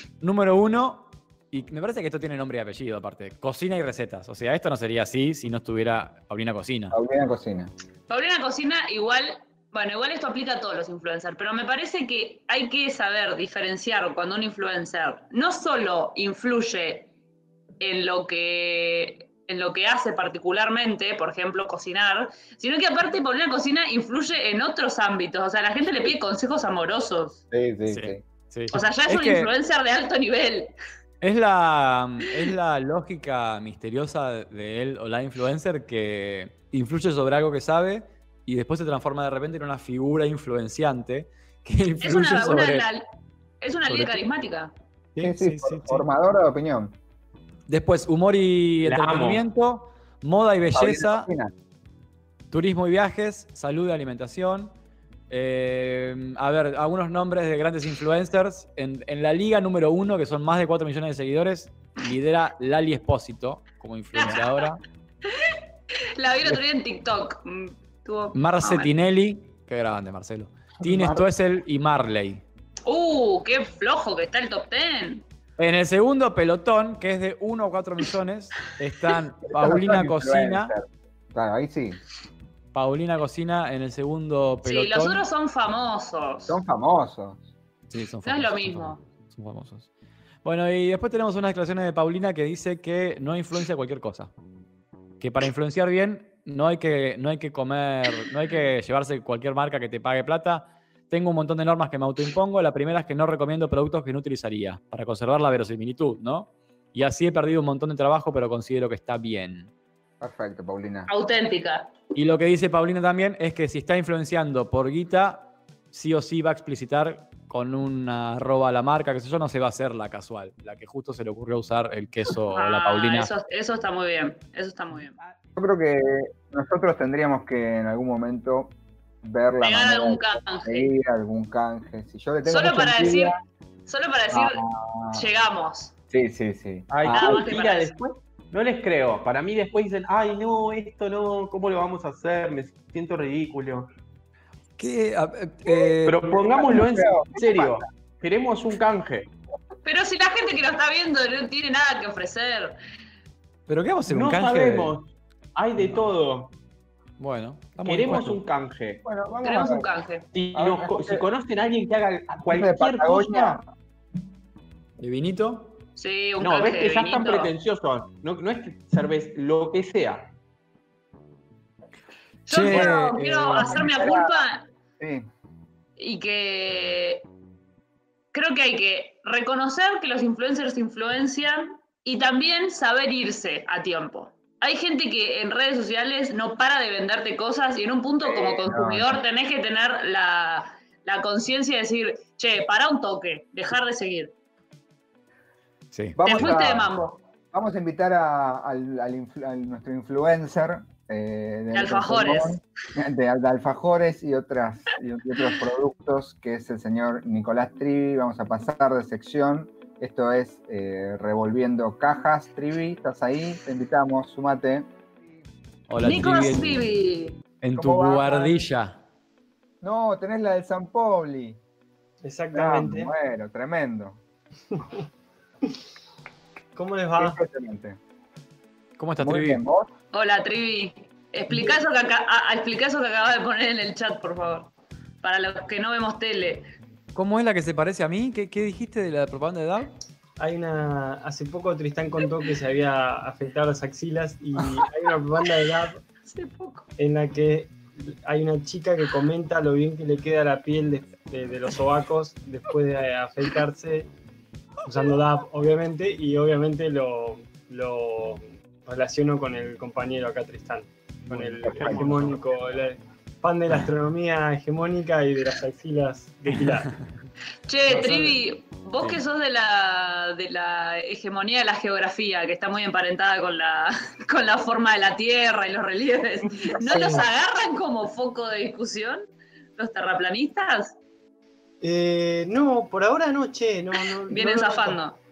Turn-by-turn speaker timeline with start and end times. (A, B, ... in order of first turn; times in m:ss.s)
0:00.2-0:07.0 A
0:06.9-0:07.7 B
0:08.1-0:17.1 C
0:17.8-0:27.4 C
0:27.5-0:28.2 B
0:27.9-0:29.5 A
0:28.7-0:30.7 C
0:31.2-0:42.9 A
0:42.0-0:43.0 C
0:43.6-0:44.7 C
0:43.9-0:44.2 A
0:45.2-0:46.0 A
0:45.2-0:47.0 B
0:47.7-0:51.3 A
0:48.8-0:49.4 D
0:50.7-0:51.5 B
0:52.5-0:54.7 A
0:55.3-1:04.8 A
1:04.2-1:04.6 C
1:05.2-1:05.6 C
1:06.2-1:08.9 C
1:08.3-1:12.4 A
1:10.8-1:11.2 B
1:12.9-1:15.2 C
1:15.6-1:20.7 A
1:19.5-1:22.0 B
1:22.7-1:25.2 A
1:24.6-1:26.6 C
1:26.5-1:27.4 B
1:27.9-1:29.9 A
1:28.2-1:29.0 C
1:30.4-1:34.3 A
1:35.2-1:49.7 A
1:50.2-1:51.1 B
1:51.1-1:51.9 C
1:52.2-2:03.3 A
2:02.5-2:05.2 C
2:05.6-2:13.3 B
2:09.6-2:10.9 C
2:12.5-2:13.4 C
2:13.9-2:15.9 C
2:14.3-2:15.2 B
2:16.1-2:17.4 B
2:16.9-2:23.9 D
2:17.1-2:17.9 C
2:24.8-2:26.3 A
2:26.0-2:29.3 D
2:26.3-2:27.9 B
2:29.8-2:32.8 C
2:33.7-2:35.0 A
2:34.1-2:36.5 D
2:35.8-2:36.1 A
2:37.2-2:38.4 A
2:37.8-2:39.0 D
2:39.0-2:39.9 B
2:39.4-2:40.2 C
2:40.3-2:43.6 D
2:40.5-2:41.3 B
2:42.4-2:43.7 B
2:45.0-2:45.8 A
2:46.0-2:47.5 C
2:46.4-2:50.3 D
2:52.5-2:54.7 C
2:52.5-2:53.9 A
2:53.5-2:54.5 B
2:55.0-2:55.2 B
2:56.0-2:57.2 C
2:58.3-3:14.3 C
3:08.2-3:09.2 B
3:15.9-3:16.2 A
3:16.2-3:17.0 B
3:16.2-3:17.2 C
3:17.5-3:34.9 B
3:21.7-3:22.6 C
3:35.9-3:36.8 A
3:36.0-3:37.4 C
3:37.6-3:39.0 A
3:37.8-3:38.4 B
3:39.8-3:41.6 B
3:42.2-3:43.1 E
3:42.5-3:44.2 B
3:46.8-3:47.4 E
3:47.2-3:48.0 B
3:49.0-3:49.6 A
3:49.2-3:49.9 B
3:50.1-3:56.7 C
3:51.5-3:51.8 E
3:57.2-3:59.9 A
4:00.4-4:06.0 E
4:06.2-4:06.9 C
4:07.0-4:14.1 E
4:14.8-4:26.9 E
4:21.3-4:22.0 A
4:21.4-4:22.0 B
4:21.8-4:22.8 D
4:27.7-4:39.3 C
4:27.9-4:28.4 E
4:36.9-4:37.3 B
4:36.9-4:37.2 E
4:39.8-4:41.0 C
4:41.8-4:45.0 E
4:44.3-4:45.2 C